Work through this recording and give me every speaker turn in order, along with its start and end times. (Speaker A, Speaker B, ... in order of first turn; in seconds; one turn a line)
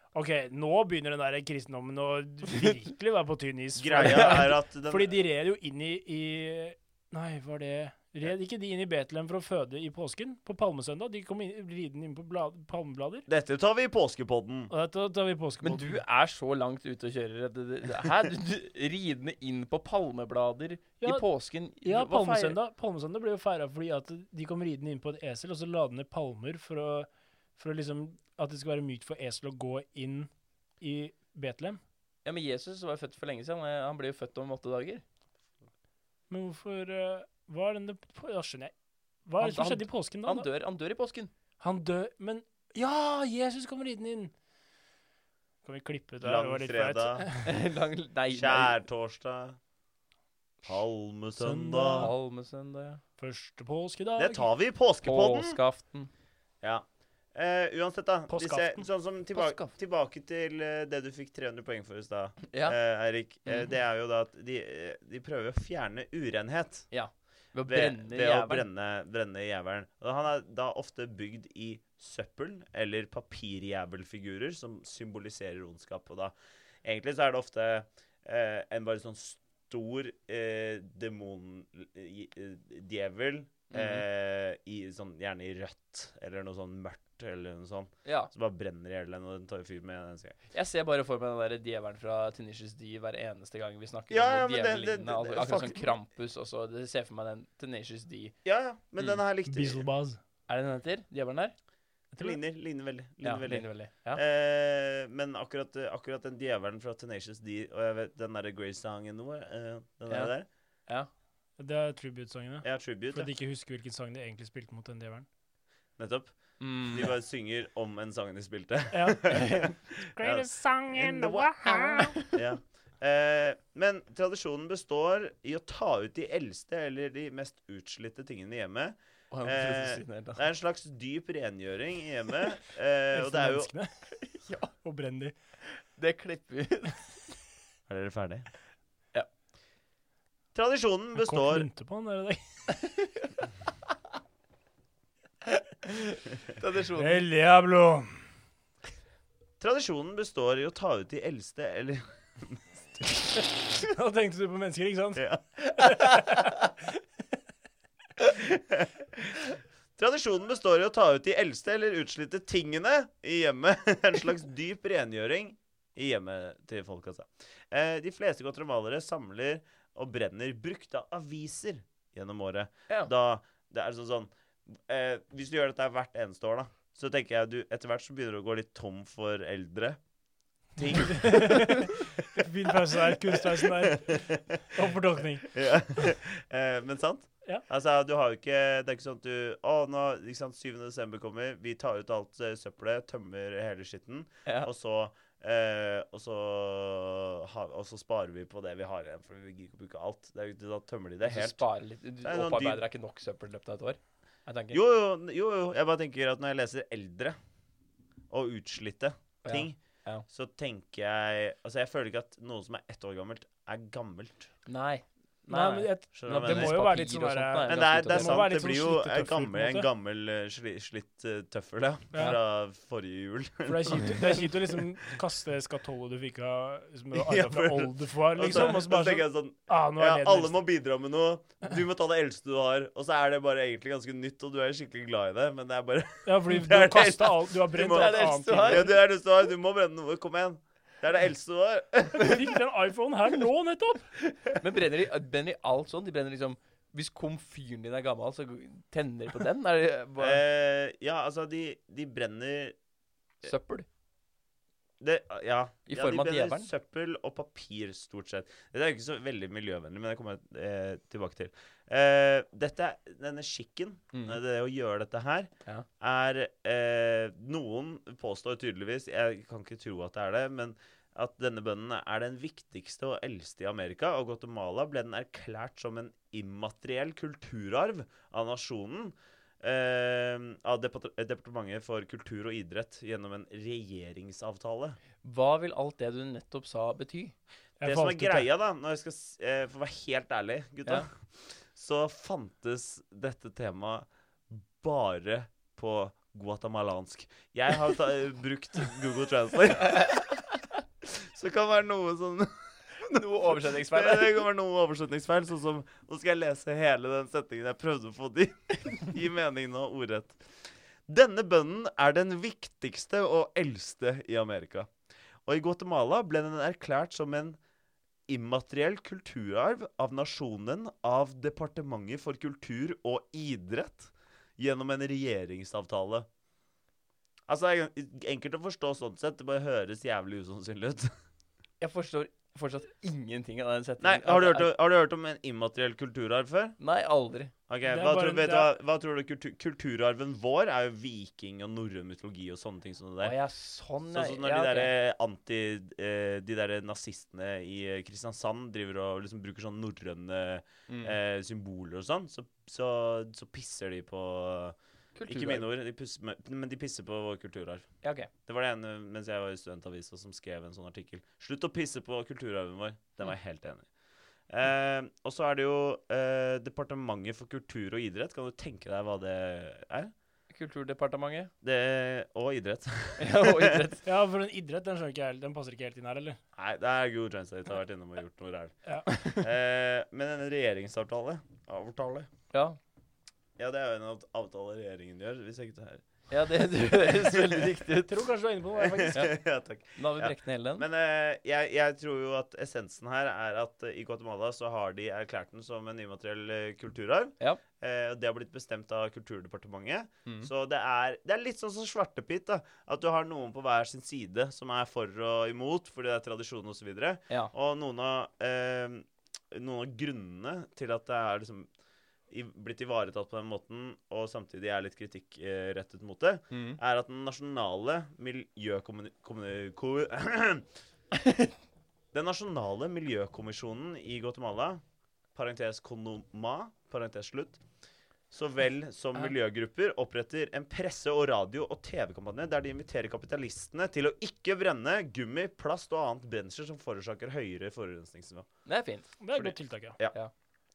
Speaker A: 0.1-13.3
Speaker B: 3.8-5.2
Speaker C: 4.0-4.4
Speaker B: 13.3-14.7
Speaker A: 14.7-16.0
Speaker C: 15.6-22.6
Speaker B: 18.0-18.3
Speaker A: 21.8-30.3
Speaker A: 30.8-31.8
Speaker C: 32.2-35.0
Speaker A: 36.3-38.7
Speaker A: 39.3-40.5
Speaker C: 39.4-41.3
Speaker A: 41.6-44.3
Speaker A: 45.6-47.5
Speaker B: 46.2-47.3
Speaker C: 47.4-48.8
Speaker B: 48.3-49.6
Speaker B: 50.6-52.1
Speaker A: 51.4-52.1
Speaker C: 52.0-53.0
Speaker A: 53.2-54.5
Speaker B: 54.2-55.6
Speaker C: 55.0-56.1
Speaker B: 56.6-66.9
Speaker A: 58.3-58.9
Speaker C: 59.3-59.8
Speaker C: 62.5-62.8
Speaker C: 63.5-63.7
Speaker C: 66.9-68.7
Speaker B: 67.7-90.4
Speaker C: 83.7-84.0
Speaker C: 88.0-88.3
Speaker C: 90.5-98.4
Speaker B: 94.1-95.9
Speaker B: 98.5-99.8
Speaker A: 99.5-100.2
Speaker C: 100.5-101.5
Speaker B: 102.2-110.5
Speaker C: 103.2-104.2
Speaker A: 111.6-115.3
Speaker B: 112.6-113.3
Speaker B: 116.0-133.7
Speaker C: 116.6-117.1
Speaker A: 118.9-122.2
Speaker C: 129.3-130.4
Speaker A: 133.1-133.9
Speaker C: 134.2-134.7
Speaker A: 134.8-135.3
Speaker C: 135.7-137.2
Speaker B: 137.9-138.5
Speaker B: 140.5-141.7
Speaker A: 141.2-142.7
Speaker C: 142.8-143.3
Speaker C: 145.8-147.2
Speaker A: 147.0-148.2
Speaker B: 149.6-153.3
Speaker A: 153.7-156.7
Speaker B: 155.2-156.4
Speaker B: 158.3-159.4
Speaker B: 160.0-180.0
Speaker B: 180.8-181.9
Speaker A: 180.9-185.5
Speaker B: 183.1-184.8
Speaker B: 185.5-201.6
Speaker C: 201.2-204.8
Speaker B: 202.2-202.8
Speaker B: 204.7-207.4
Speaker B: 208.3-214.5
Speaker C: 209.4-210.2
Speaker C: 214.7-218.5
Speaker A: 215.5-219.9
Speaker B: 216.1-216.9
Speaker B: 217.7-224.8
Speaker A: 222.1-222.4
Speaker A: 223.7-230.6
Speaker B: 227.1-242.6
Speaker A: 236.2-239.0
Speaker C: 237.8-238.9
Speaker A: 242.1-244.1
Speaker C: 244.5-250.4
Speaker B: 250.2-252.8
Speaker C: 253.4-253.9
Speaker B: 255.0-285.0
Speaker C: 255.9-256.7
Speaker C: 264.1-264.4
Speaker C: 285.2-287.3
Speaker A: 287.8-288.5
Speaker B: 287.8-291.1
Speaker B: 291.7-300.4
Speaker B: 301.0-310.4
Speaker C: 303.0-304.4
Speaker B: 311.1-314.9
Speaker B: 315.5-317.6
Speaker B: 318.3-326.3
Speaker B: 327.5-331.1
Speaker C: 331.8-334.7
Speaker B: 334.0-336.8
Speaker C: 336.8-337.5
Speaker B: 337.7-343.4
Speaker A: 337.9-338.7
Speaker C: 343.2-344.9
Speaker B: 344.1-354.8
Speaker C: 350.9-351.2
Speaker C: 355.2-355.7
Speaker B: 355.3-357.9
Speaker C: 358.0-358.3
Speaker B: 358.5-363.9
Speaker B: 364.5-370.1
Speaker C: 370.5-371.5
Speaker B: 371.6-373.8
Speaker C: 373.2-374.0
Speaker A: 374.1-376.4
Speaker B: 376.6-382.3
Speaker C: 379.1-379.4
Speaker C: 382.5-382.8
Speaker B: 383.6-386.0
Speaker C: 386.3-388.1
Speaker A: 387.9-389.3
Speaker B: 388.8-411.7
Speaker C: 390.0-390.9
Speaker B: 412.3-420.7
Speaker C: 416.5-416.8
Speaker C: 421.2-421.5
Speaker B: 422.1-424.8
Speaker B: 425.4-427.6
Speaker B: 428.3-438.5
Speaker C: 438.7-439.6
Speaker A: 439.2-440.0